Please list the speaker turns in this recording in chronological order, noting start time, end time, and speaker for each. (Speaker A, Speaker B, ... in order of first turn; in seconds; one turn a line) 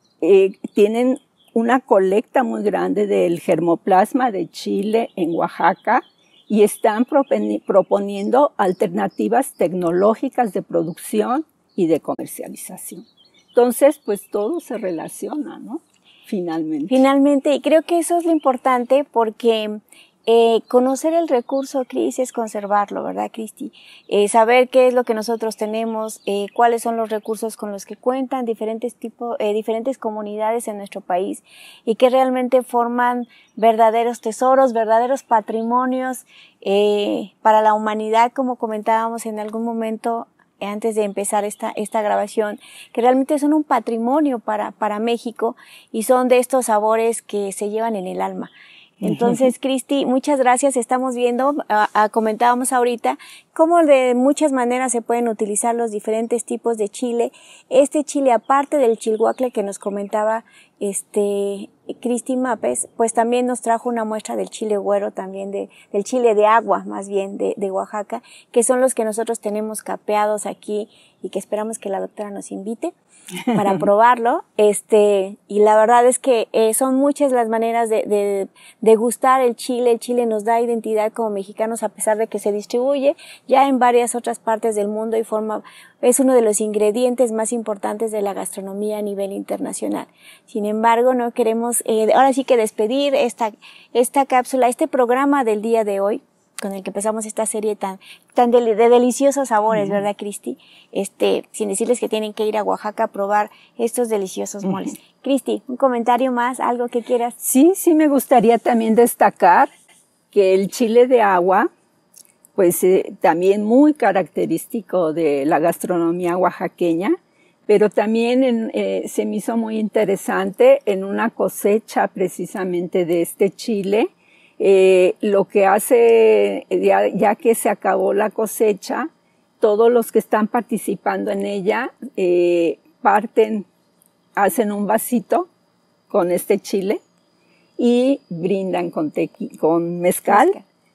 Speaker A: 0.2-17.0
Speaker B: 16.9-72.9
Speaker A: 49.0-49.5
Speaker B: 73.5-107.4
Speaker A: 107.4-109.7
Speaker A: 110.3-111.7
Speaker A: 112.5-117.2
Speaker A: 117.7-124.1
Speaker A: 124.6-129.1
Speaker A: 129.6-133.7
Speaker A: 134.4-135.5
Speaker A: 136.1-137.0
Speaker A: 137.8-140.6
Speaker B: 140.3-140.6